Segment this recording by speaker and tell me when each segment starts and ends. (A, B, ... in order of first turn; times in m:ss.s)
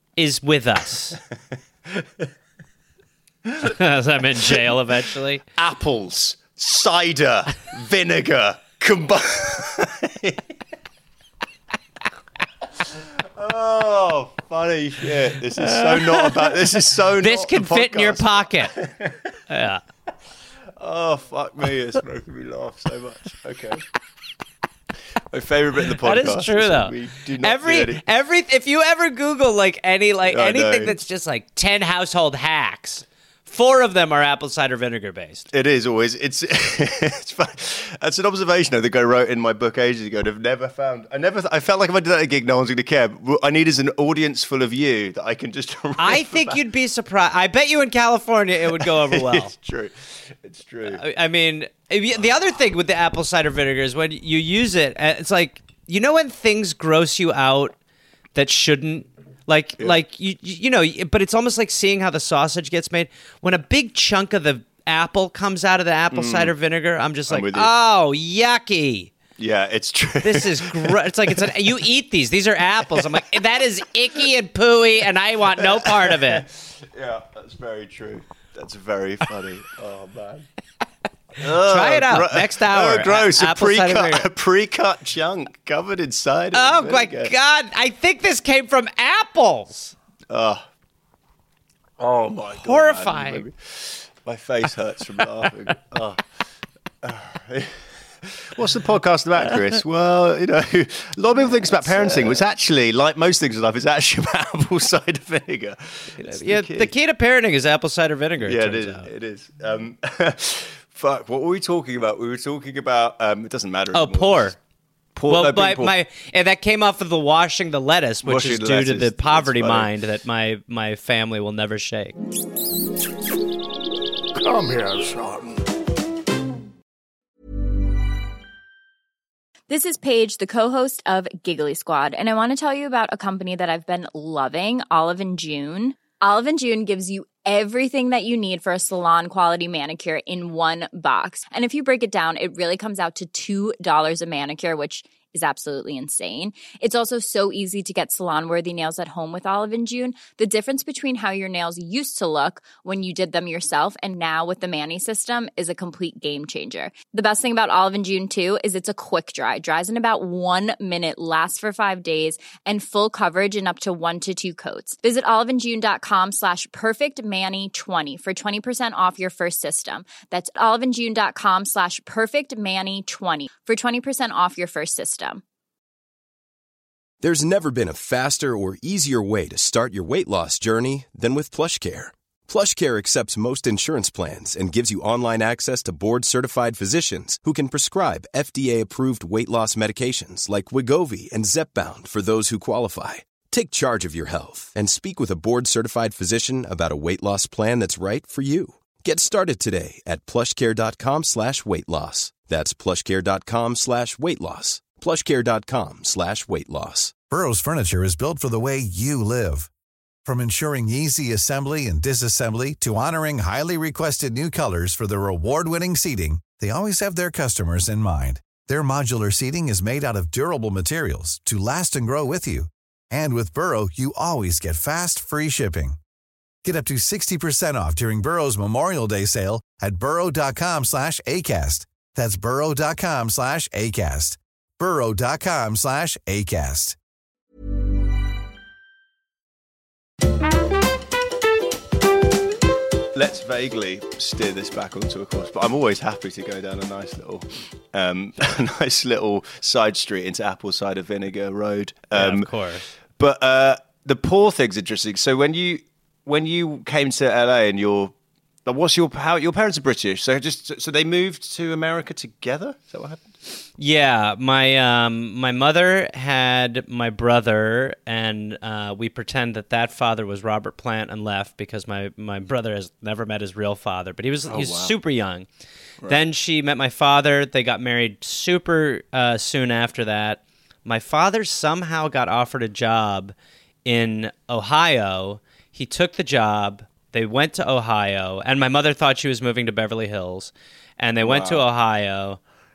0:00.2-0:01.2 A
0:01.9-0:02.3 B
0:03.6-0:05.4 A
0:05.6-0:10.4 B
0:13.2-0:19.4 B
0:15.6-0:16.5 A
0:17.2-0:18.8 A
0:19.5-0:19.8 A
0:20.8-0:23.8 B
0:25.3-0:28.0 B
0:25.9-0:35.5 A
0:30.2-0:31.0 B
0:35.5-0:46.6 B
0:46.0-0:49.5 A
0:48.6-0:51.0 B
0:50.8-0:57.7 A
0:58.4-1:09.1 A
1:06.1-1:06.5 B
1:07.3-1:07.7 B
1:09.4-1:11.6 B
1:10.2-1:16.4 A
1:12.9-1:13.4 B
1:15.6-1:20.4 B
1:21.4-1:27.3 B
1:21.4-1:24.3 A
1:26.5-1:29.9 A
1:30.3-1:30.6 B
1:32.0-1:36.2 B
1:32.6-1:33.4 A
1:37.0-1:46.9 B
1:46.2-1:49.1 A
1:48.4-1:54.6 B
1:53.9-1:54.6 A
1:55.1-1:56.0 B
1:55.3-2:02.2 A
1:58.2-1:59.9 B
2:09.7-2:55.4 C
2:57.2-3:27.2 D
3:27.3-3:29.7 E
3:30.2-3:46.0 E
3:46.6-3:57.0 E
4:03.1-4:12.5 B
4:12.1-4:12.9 A
4:13.2-4:18.1 B
4:18.6-4:23.3 B
4:23.8-4:35.5 A
4:34.5-4:35.0 B
4:36.1-4:43.3 A
4:43.8-4:52.4 A
4:51.2-4:51.6 B